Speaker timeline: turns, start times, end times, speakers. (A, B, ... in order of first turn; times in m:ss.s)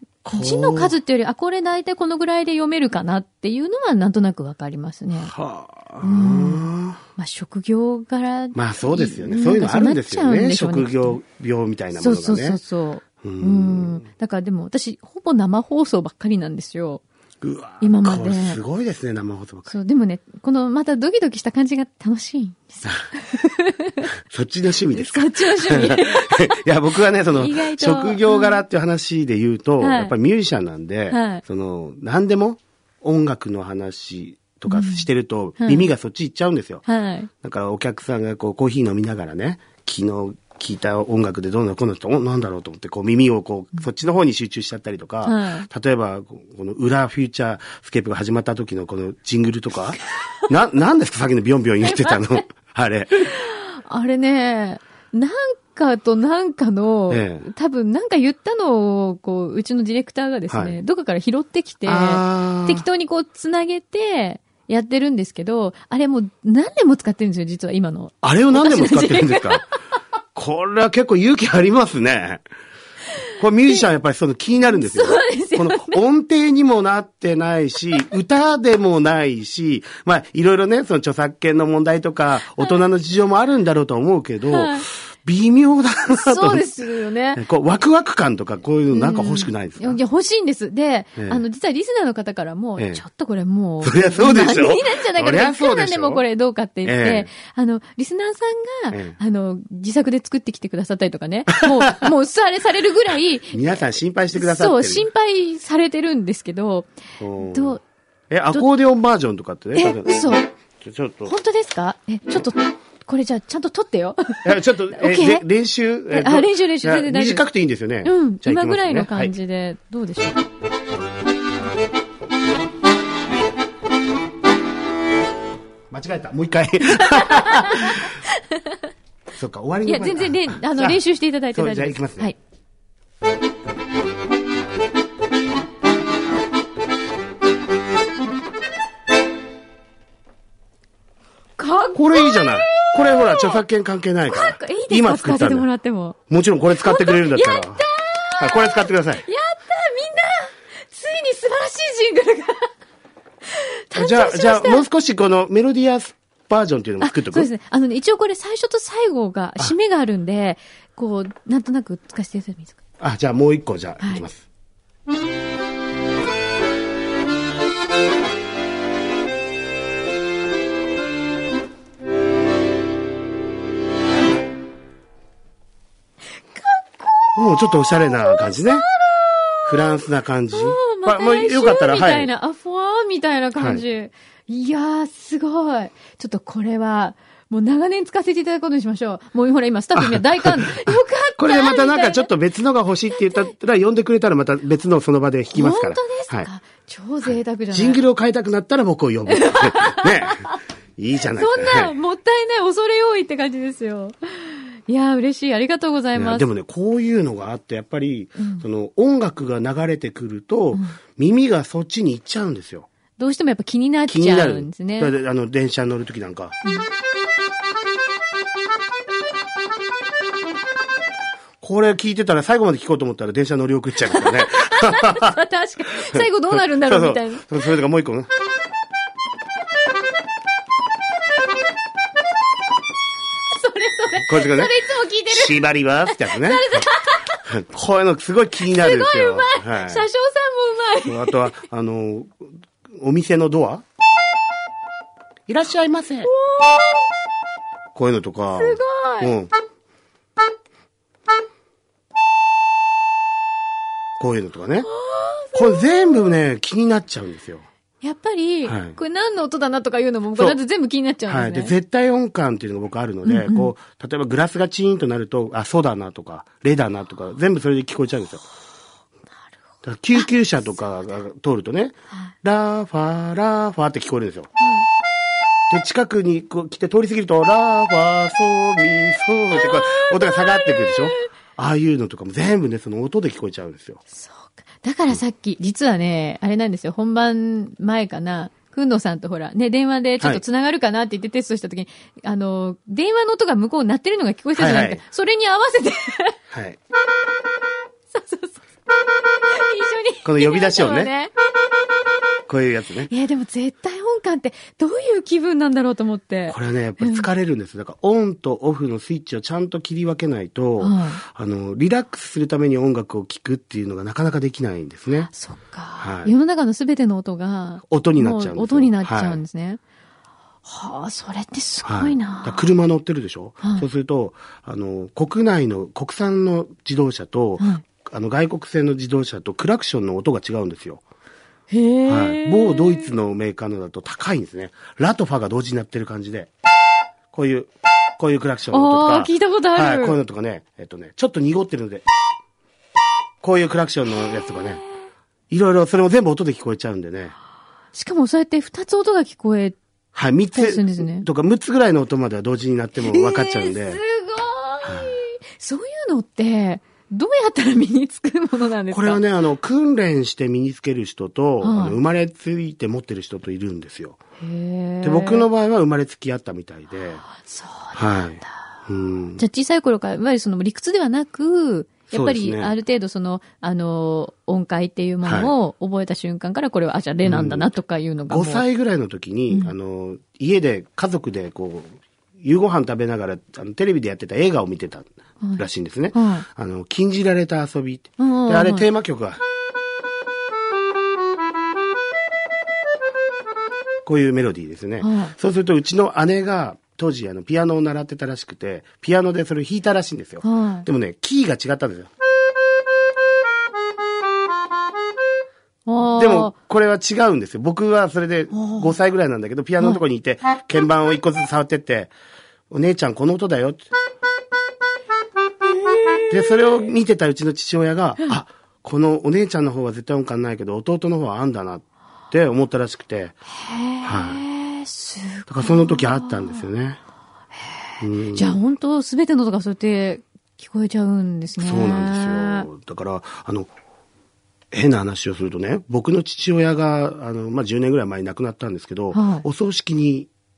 0:00.2-0:00.9 A
0:00.3-0:05.3 B
0:05.2-0:07.0 A
0:06.0-0:06.6 B
0:07.2-0:11.2 B
0:08.5-0:12.6 A
0:12.0-0:17.0 B
0:13.2-0:14.0 A
0:17.4-0:19.7 A
0:17.8-0:18.6 B
0:19.7-0:24.1 B
0:24.2-0:36.8 A
0:24.9-0:26.6 B
0:27.3-0:28.6 B
0:29.8-0:30.1 B
0:31.1-0:31.4 B
0:34.7-0:35.0 B
0:35.6-0:35.9 B
0:36.8-0:37.3 B
0:37.4-0:53.4 A
0:45.2-0:45.7 B
0:51.8-0:52.4 B
0:53.2-1:09.6 B
0:57.1-0:57.5 A
1:00.5-1:00.8 A
1:01.8-1:02.8 A
1:08.2-1:09.6 A
1:10.3-1:12.4 A
1:13.4-1:26.7 A
1:14.6-1:16.0 B
1:24.5-1:24.9 B
1:26.1-1:27.4 B
1:27.3-1:30.0 A
1:28.9-1:43.6 B
1:32.8-1:33.0 A
1:33.8-1:36.2 A
1:36.8-1:37.3 A
1:43.5-1:45.1 A
1:44.3-1:47.8 B
1:47.2-1:47.8 A
1:48.3-1:51.3 A
1:49.7-1:50.5 B
1:51.2-1:55.4 B
1:54.4-1:59.3 A
1:56.1-1:57.4 B
1:58.0-2:00.4 B
2:05.9-2:08.1 A
2:07.1-2:08.8 B
2:09.4-2:12.3 A
2:09.8-2:12.4 B
2:21.6-2:23.6 B
2:21.9-2:25.6 A
2:24.3-2:26.2 B
2:26.3-2:27.8 A
2:26.8-2:32.7 B
2:28.4-2:29.2 A
2:33.4-2:34.9 B
2:33.9-2:37.5 A
2:37.0-2:42.8 B
2:43.0-2:44.4 A
2:56.5-3:00.0 B
2:57.3-2:58.9 A
2:59.6-3:02.3 A
3:00.5-3:12.3 B
3:03.6-3:03.8 A
3:10.0-3:16.5 A
3:13.2-3:13.4 B
3:15.5-3:18.0 B
3:17.2-3:21.9 A
3:19.3-3:20.5 B
3:21.3-3:26.4 B
3:26.1-3:32.9 A
3:28.4-3:28.6 B
3:33.2-3:35.1 B
3:34.1-3:36.6 A
3:41.6-3:45.4 A
3:44.1-3:47.5 B
3:45.9-3:48.3 A
3:53.5-3:57.4 B
3:54.2-3:54.8 A
3:55.3-3:56.8 A
3:57.4-4:00.0 A
3:58.6-4:01.4 B
4:01.0-4:03.8 A
4:05.5-4:06.3 A
4:06.2-4:07.0 B
4:07.9-4:09.5 A
4:08.5-4:09.3 B
4:14.2-4:14.9 A
4:14.9-4:16.3 B
4:15.5-4:17.7 A
4:18.0-4:21.7 B
4:18.6-4:19.0 A
4:21.3-4:28.4 A
4:23.2-4:23.7 B
4:29.8-4:34.5 A
4:34.6-4:34.8 B
4:35.7-4:44.0 A
4:39.5-4:41.1 B
4:44.1-4:56.4 B
4:54.6-4:55.0 A
4:56.5-4:56.8 A
4:58.1-4:58.6 B
4:59.4-5:01.3 B
5:00.2-5:01.1 A
5:02.5-5:03.1 A
5:03.1-5:07.3 B
5:06.5-5:15.3 A
5:10.8-5:11.2 B
5:15.3-5:19.8 B
5:16.0-5:16.3 A
5:17.9-5:19.4 A
5:20.6-5:22.6 B
5:21.8-5:31.0 A
5:27.6-5:27.8 B
5:31.7-5:33.1 B
5:32.1-5:36.5 A
5:37.3-5:42.0 A
5:38.7-5:40.2 B
5:43.4-5:44.8 A
5:45.5-5:47.3 A
5:47.9-5:49.8 B
5:50.1-5:54.0 A
5:50.5-5:51.3 B
5:53.1-5:59.2 B
5:54.8-5:55.1 A
5:58.9-6:04.2 A
6:01.6-6:02.0 B
6:04.4-6:05.5 B
6:05.0-6:07.2 A
6:07.3-6:08.0 B
6:07.9-6:09.4 A
6:09.4-6:18.6 B
6:12.1-6:12.7 A
6:15.2-6:15.5 A
6:17.2-6:17.7 A
6:18.3-6:29.4 A
6:25.4-6:26.4 B
6:28.2-6:28.9 B
6:34.0-6:42.1 A
6:35.0-6:35.3 B
6:40.4-6:40.9 B
6:45.8-6:46.5 B
6:46.2-6:52.1 A
6:48.5-6:48.9 B
6:52.7-6:53.9 A
6:55.8-6:56.6 B
6:56.3-7:03.4 A
7:03.5-7:06.6 B
7:04.0-7:04.4 A
7:05.5-7:07.0 A
7:08.0-7:08.5 A
7:08.3-7:12.7 B
7:11.6-7:13.7 A
7:14.7-7:20.3 A
7:19.1-7:19.4 B